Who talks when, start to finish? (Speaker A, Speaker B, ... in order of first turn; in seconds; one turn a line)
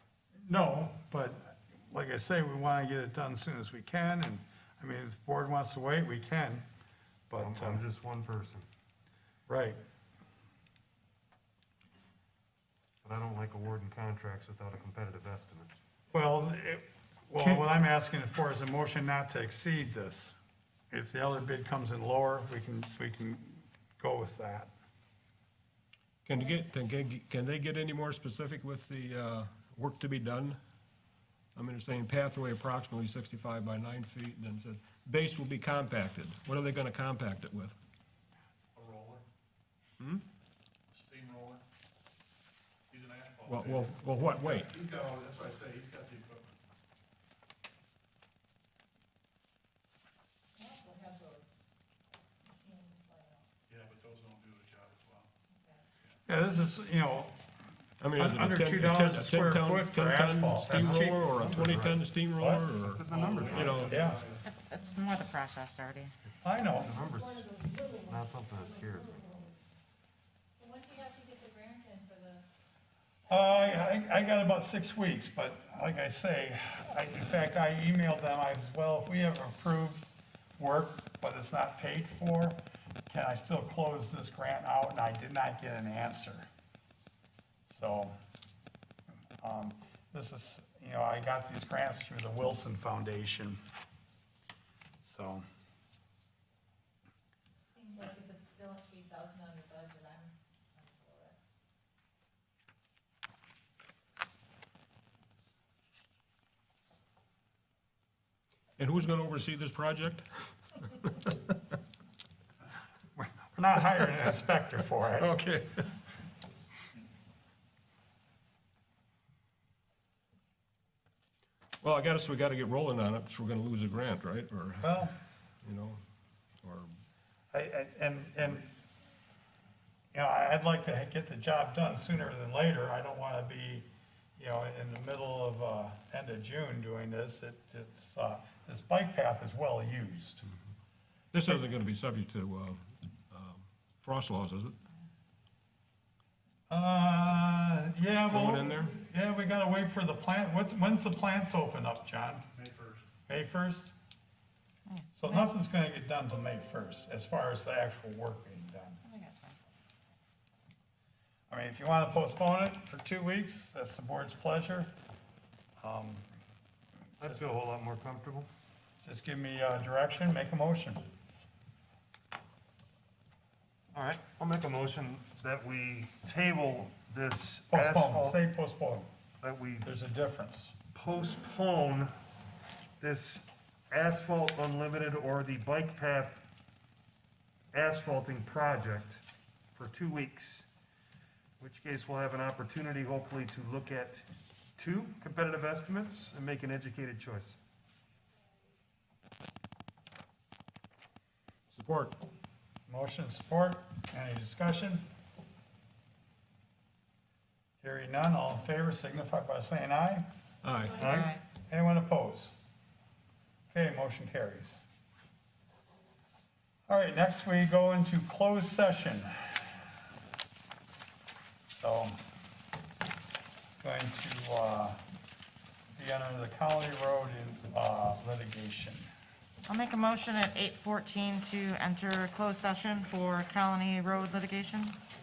Speaker A: 0.4-6.7
Speaker A: 7.3-7.8
Speaker B: 7.4-8.7
Speaker A: 9.5-9.8
Speaker B: 13.0-15.7
Speaker A: 16.1-20.4
Speaker A: 20.9-24.7
Speaker C: 26.2-30.6
Speaker C: 31.5-37.8
Speaker D: 38.7-39.2
Speaker D: 40.9-41.6
Speaker D: 42.9-46.6
Speaker C: 43.5-44.8
Speaker E: 50.5-51.7
Speaker E: 52.5-53.5
Speaker D: 53.7-55.3
Speaker E: 55.5-55.8
Speaker A: 56.3-57.4
Speaker C: 58.0-64.0
Speaker A: 58.1-61.3
Speaker B: 60.8-62.1
Speaker A: 62.4-62.6
Speaker B: 62.7-63.9
Speaker D: 63.0-64.5
Speaker A: 63.8-64.2
Speaker F: 64.4-66.1
Speaker B: 66.2-67.5
Speaker A: 66.4-67.0
Speaker E: 67.0-68.1
Speaker B: 68.0-69.4
Speaker E: 69.2-69.5
Speaker E: 70.6-72.4
Speaker E: 73.3-73.9
Speaker A: 73.3-86.5
Speaker A: 87.7-88.1
Speaker A: 89.4-93.6
Speaker A: 95.0-95.4
Speaker E: 97.7-101.3
Speaker C: 108.8-110.2
Speaker C: 111.0-111.5
Speaker A: 113.2-115.3
Speaker C: 115.2-115.9
Speaker C: 121.8-125.1
Speaker A: 124.8-125.1
Speaker C: 125.6-126.0
Speaker C: 126.6-126.9
Speaker A: 127.5-128.7
Speaker A: 130.1-140.4
Speaker C: 141.3-144.7
Speaker A: 146.7-152.4
Speaker C: 148.3-148.9
Speaker D: 152.5-153.1
Speaker A: 153.3-153.9
Speaker F: 154.9-155.5
Speaker A: 155.2-159.0
Speaker F: 159.0-159.6
Speaker A: 161.5-164.9
Speaker A: 165.8-166.3
Speaker B: 167.2-168.5
Speaker A: 169.0-171.1
Speaker B: 173.9-178.4
Speaker A: 177.7-179.1
Speaker B: 179.4-179.9
Speaker A: 179.8-180.7
Speaker B: 180.9-182.1
Speaker B: 183.0-186.4
Speaker B: 187.7-189.2
Speaker B: 189.7-190.7
Speaker B: 191.6-194.2
Speaker B: 194.8-197.6
Speaker C: 201.7-202.2
Speaker A: 202.9-205.0
Speaker A: 207.8-210.2
Speaker C: 210.6-211.0
Speaker B: 210.9-211.3
Speaker F: 211.1-211.4
Speaker A: 211.7-212.5
Speaker A: 213.7-214.8
Speaker A: 216.9-219.7
Speaker A: 221.8-222.2
Speaker A: 223.8-225.0
Speaker A: 225.9-229.1
Speaker F: 229.7-235.0